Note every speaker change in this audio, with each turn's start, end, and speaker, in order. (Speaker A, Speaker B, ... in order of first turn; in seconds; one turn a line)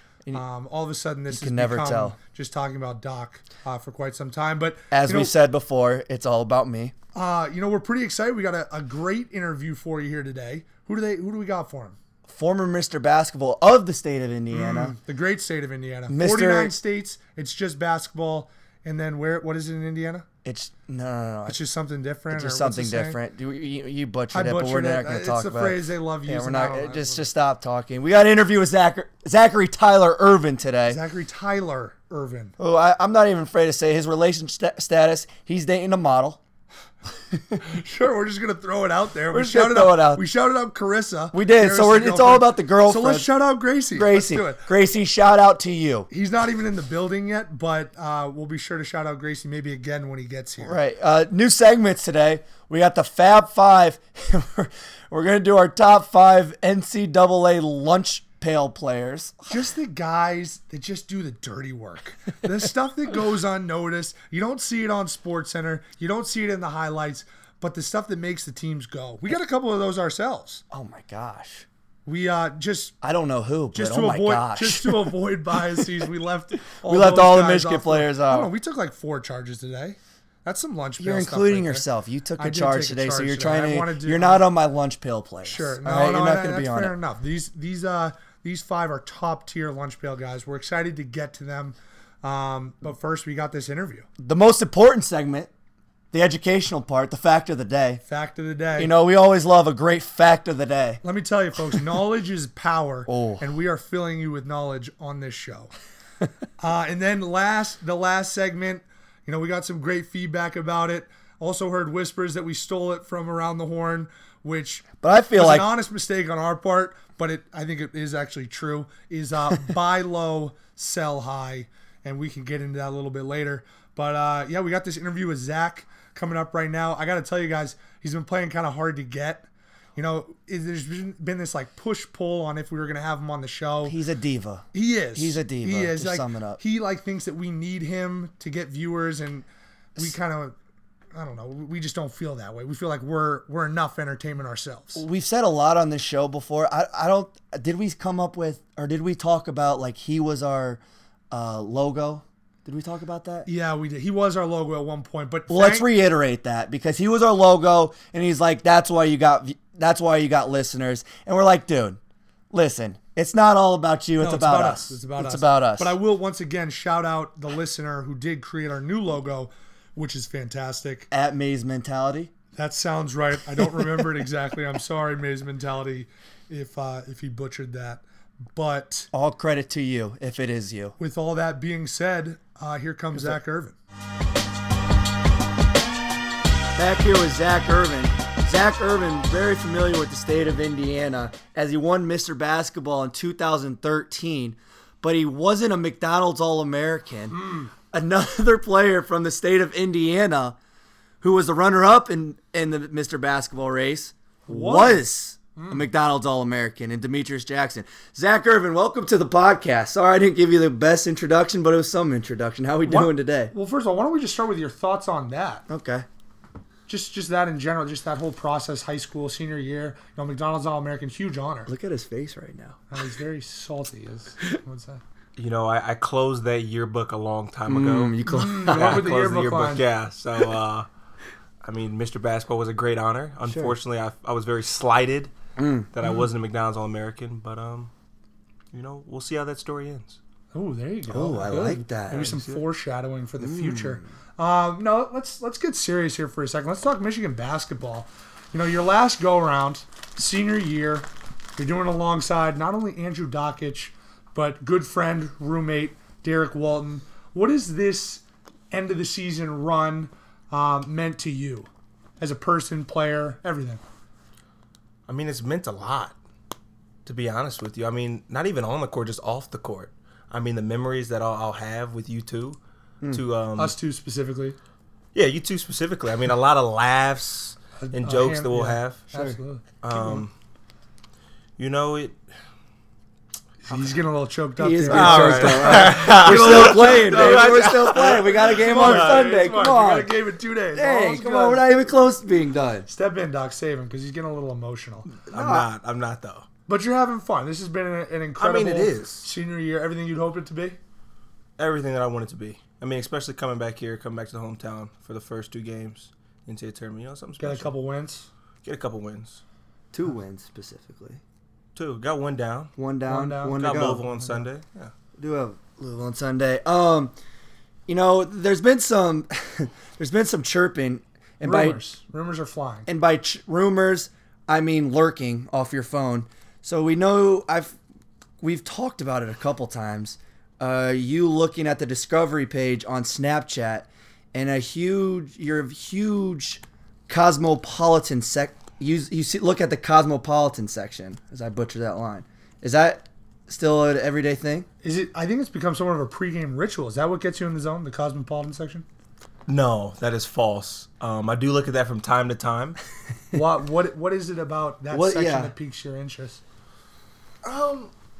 Speaker A: 0.3-5.3
Speaker B: 1.3-2.1
Speaker B: 4.9-6.9
Speaker A: 7.1-12.0
Speaker B: 12.2-14.9
Speaker A: 14.5-20.2
Speaker B: 16.1-16.8
Speaker B: 20.4-21.6
Speaker A: 21.4-23.2
Speaker B: 22.3-31.0
Speaker A: 24.3-27.3
Speaker A: 30.9-32.5
Speaker B: 32.6-36.4
Speaker A: 37.5-44.6
Speaker B: 39.3-40.2
Speaker B: 41.3-43.3
Speaker B: 43.9-46.1
Speaker A: 46.1-50.8
Speaker B: 50.6-59.5
Speaker A: 59.5-70.6
Speaker B: 70.7-71.7
Speaker A: 72.0-72.9
Speaker B: 73.0-75.1
Speaker A: 73.7-81.8
Speaker B: 76.8-78.5
Speaker B: 81.0-86.9
Speaker A: 82.4-84.4
Speaker A: 85.4-94.1
Speaker B: 94.2-95.5
Speaker B: 96.1-98.0
Speaker A: 98.1-98.9
Speaker B: 98.8-101.0
Speaker A: 101.0-105.7
Speaker B: 103.1-103.4
Speaker A: 106.6-134.0
Speaker B: 115.0-115.7
Speaker B: 133.8-136.6
Speaker A: 134.7-139.4
Speaker A: 140.0-140.5
Speaker A: 141.1-145.0
Speaker B: 144.9-153.5
Speaker A: 153.4-155.9
Speaker B: 155.5-162.0
Speaker B: 162.5-165.9
Speaker A: 164.2-171.1
Speaker B: 171.1-172.3
Speaker A: 172.5-179.1
Speaker B: 179.1-180.9
Speaker A: 181.0-183.8
Speaker B: 186.8-200.6
Speaker A: 197.3-197.7
Speaker B: 201.2-213.5
Speaker A: 204.5-205.0
Speaker A: 205.6-205.8
Speaker A: 212.8-215.7
Speaker B: 215.7-216.1
Speaker A: 216.9-221.7
Speaker B: 221.7-222.8
Speaker A: 222.9-225.0
Speaker C: 225.4-230.9
Speaker B: 227.7-229.1
Speaker A: 228.2-229.8
Speaker C: 231.6-235.3
Speaker B: 233.4-233.7
Speaker B: 235.6-235.9
Speaker C: 235.9-237.9
Speaker C: 238.7-240.2
Speaker A: 240.5-261.7
Speaker B: 241.1-242.3
Speaker C: 242.1-242.6
Speaker B: 243.4-244.0
Speaker A: 262.2-263.8
Speaker C: 265.1-266.1
Speaker C: 267.0-272.6
Speaker C: 273.1-273.7
Speaker A: 273.6-274.6
Speaker C: 275.1-279.0
Speaker A: 277.8-280.2
Speaker B: 279.1-279.4
Speaker C: 279.8-280.3
Speaker C: 281.6-282.2
Speaker A: 283.7-287.8
Speaker B: 284.6-290.2
Speaker C: 284.9-289.3
Speaker A: 288.4-291.6
Speaker B: 290.7-292.9
Speaker A: 292.9-295.1
Speaker C: 295.2-296.4
Speaker B: 295.3-295.7
Speaker A: 296.7-300.8
Speaker C: 298.4-299.3
Speaker C: 301.6-307.7
Speaker A: 307.4-308.3
Speaker C: 308.6-309.4
Speaker B: 309.9-311.2
Speaker C: 311.7-312.7
Speaker B: 312.8-314.0
Speaker A: 313.1-314.4
Speaker C: 313.5-314.9
Speaker B: 315.2-317.1
Speaker B: 317.9-321.8
Speaker A: 321.4-322.9
Speaker B: 322.9-327.8
Speaker B: 328.4-344.7
Speaker A: 344.8-348.9
Speaker C: 349.5-352.8
Speaker A: 353.3-356.4
Speaker B: 354.9-355.5
Speaker C: 357.4-357.9